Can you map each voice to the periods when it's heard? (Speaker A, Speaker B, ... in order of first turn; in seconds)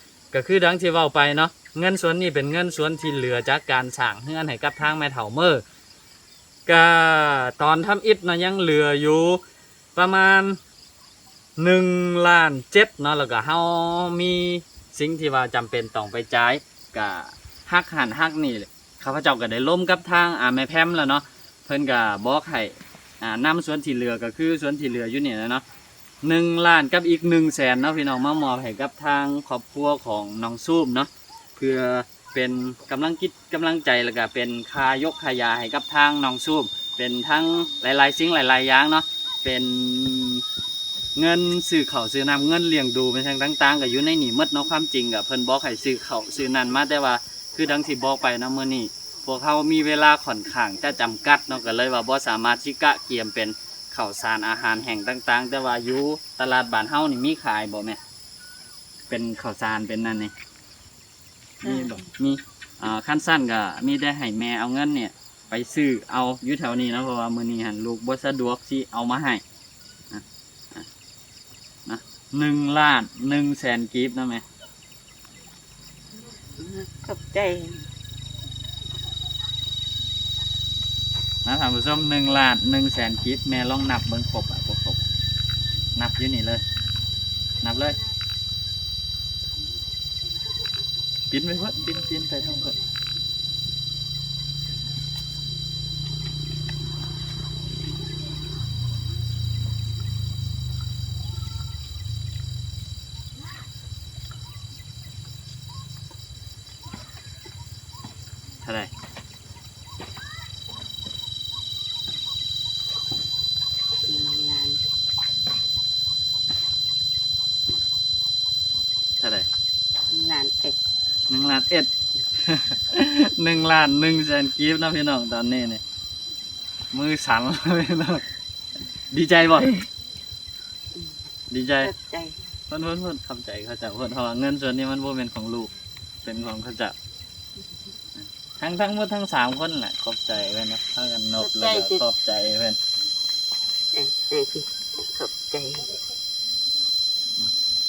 Speaker A: 0.3-5.6, 6.7-9.4, 9.9-10.6, 11.6-25.6, 26.2-40.4, 41.1-58.0, 59.1-60.3, 61.6-69.4, 71.8-74.4, 81.4-85.0, 85.9-86.6, 87.6-88.0, 91.3-92.8, 108.6-108.9, 119.2-119.5, 121.3-125.8, 126.9-128.2, 129.1-129.9, 131.5-131.9, 132.7-135.7, 136.2-136.9, 138.6-142.8
Speaker B: 61.6-62.0, 76.6-77.9, 114.1-114.8, 120.1-120.8, 131.8-132.4, 141.4-142.0, 143.9-146.0